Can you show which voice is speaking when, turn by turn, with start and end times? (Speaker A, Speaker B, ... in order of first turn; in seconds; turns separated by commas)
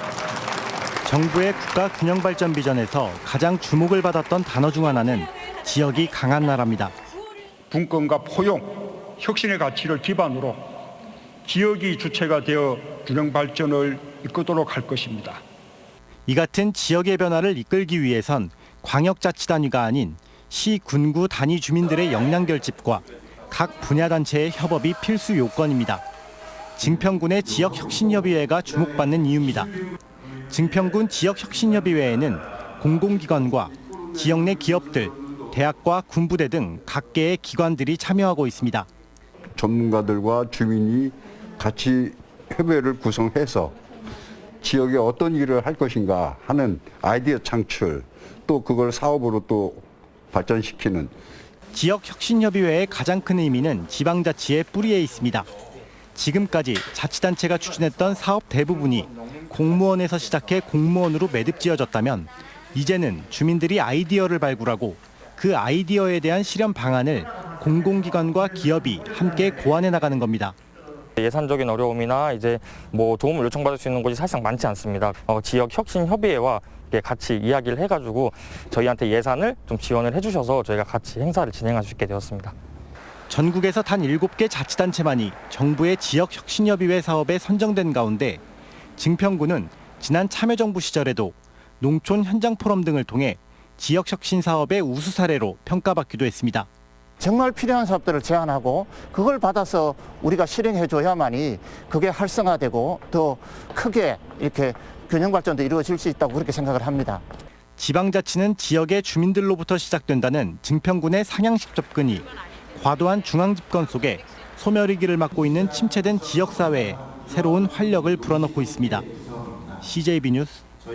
Speaker A: 1.1-6.9, Speaker B: 7.7-10.6, Speaker B: 11.5-15.4, Speaker A: 16.3-26.0, Speaker A: 26.8-29.7, Speaker A: 30.5-38.9, Speaker C: 39.6-43.8, Speaker C: 44.6-51.1, Speaker A: 51.7-55.5, Speaker A: 56.2-70.5, Speaker D: 71.2-82.5, Speaker A: 83.3-88.4, Speaker A: 89.0-96.7, Speaker E: 97.2-107.2, Speaker A: 107.8-119.1, Speaker A: 119.8-120.7